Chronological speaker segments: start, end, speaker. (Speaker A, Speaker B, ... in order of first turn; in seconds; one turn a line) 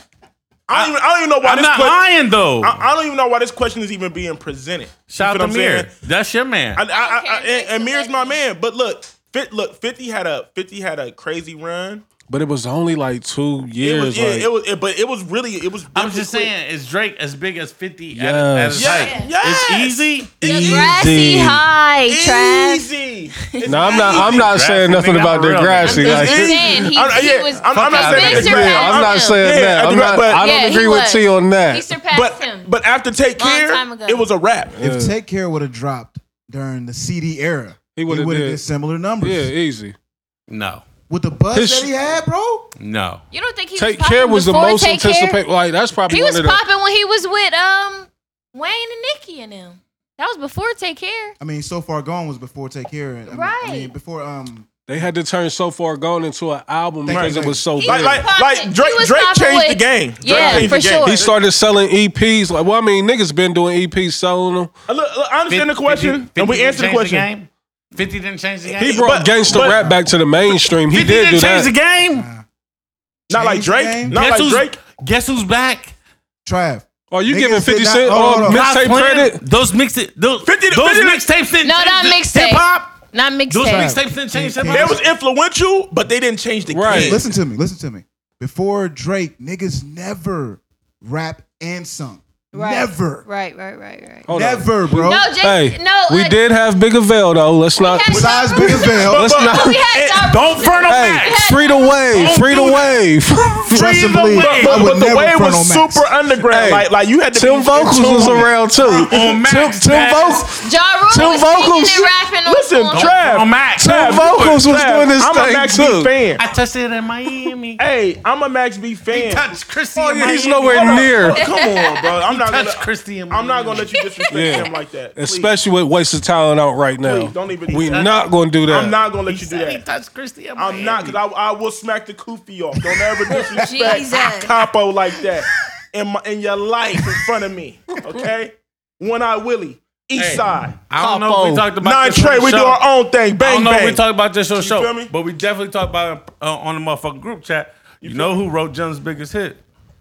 Speaker A: 0.7-2.0
Speaker B: 0.7-2.8
Speaker A: 2.6-5.9
Speaker B: 5.1-6.8
Speaker A: 6.8-12.0
Speaker C: 6.9-8.4
Speaker D: 12.3-14.5
Speaker A: 13.8-16.5
Speaker B: 15.9-20.8
Speaker D: 18.1-18.9
Speaker A: 18.8-21.4
Speaker C: 18.9-19.4
Speaker C: 20.4-22.9
Speaker D: 20.5-21.6
Speaker A: 22.1-24.6
Speaker C: 23.5-24.0
Speaker D: 23.6-26.9
Speaker B: 24.0-26.5
Speaker C: 25.8-29.4
Speaker A: 26.0-30.5
Speaker B: 27.7-28.7
Speaker D: 28.2-31.9
Speaker C: 30.4-32.7
Speaker A: 32.1-34.7
Speaker C: 33.4-34.3
Speaker D: 34.7-35.2
Speaker E: 34.8-39.5
Speaker D: 37.9-38.6
Speaker D: 39.2-40.0
Speaker B: 40.5-40.8
Speaker E: 41.1-42.7
Speaker D: 41.5-41.9
Speaker B: 42.8-43.2
Speaker C: 43.3-45.4
Speaker D: 43.8-46.6
Speaker C: 46.1-51.4
Speaker E: 51.4-54.7
Speaker C: 53.3-53.9
Speaker D: 54.9-58.3
Speaker E: 57.0-57.7
Speaker A: 57.1-61.3
Speaker C: 57.7-61.3
Speaker D: 60.2-64.7
Speaker A: 64.9-67.3
Speaker B: 65.5-69.7
Speaker A: 68.7-69.9
Speaker D: 68.8-71.7
Speaker B: 70.9-72.3
Speaker E: 72.1-72.4
Speaker A: 73.3-74.8
Speaker E: 73.3-74.2
Speaker B: 74.1-75.9
Speaker E: 76.4-78.6
Speaker D: 77.1-79.4
Speaker B: 78.4-83.0
Speaker A: 80.4-81.2
Speaker C: 81.6-84.0
Speaker B: 83.5-85.0
Speaker E: 83.6-85.0
Speaker A: 84.7-87.2
Speaker D: 86.7-87.2
Speaker E: 86.9-93.2
Speaker C: 92.5-94.3
Speaker D: 94.2-99.8
Speaker E: 94.3-95.3
Speaker C: 94.9-96.4
Speaker C: 97.8-102.4
Speaker E: 98.1-99.3
Speaker A: 98.1-100.4
Speaker B: 100.2-103.0
Speaker D: 100.9-104.0
Speaker B: 103.6-104.9
Speaker E: 103.7-106.1
Speaker A: 104.4-109.1
Speaker D: 106.5-112.1
Speaker B: 108.8-110.5
Speaker C: 110.5-113.2
Speaker A: 112.4-116.4
Speaker B: 112.9-114.7
Speaker D: 113.8-116.1
Speaker B: 116.4-117.8
Speaker A: 117.8-119.5
Speaker B: 119.1-121.1
Speaker D: 119.9-121.4
Speaker A: 120.6-125.5
Speaker C: 121.3-122.0
Speaker B: 122.2-123.9
Speaker C: 124.0-124.7
Speaker D: 124.3-129.0
Speaker A: 127.0-128.1
Speaker B: 127.8-128.2
Speaker A: 128.7-129.8
Speaker B: 129.3-131.2
Speaker A: 130.6-140.8
Speaker C: 133.6-134.6
Speaker B: 140.2-142.8
Speaker D: 141.0-141.7
Speaker A: 141.8-144.0
Speaker B: 143.4-149.6
Speaker A: 144.6-145.1
Speaker A: 148.0-148.3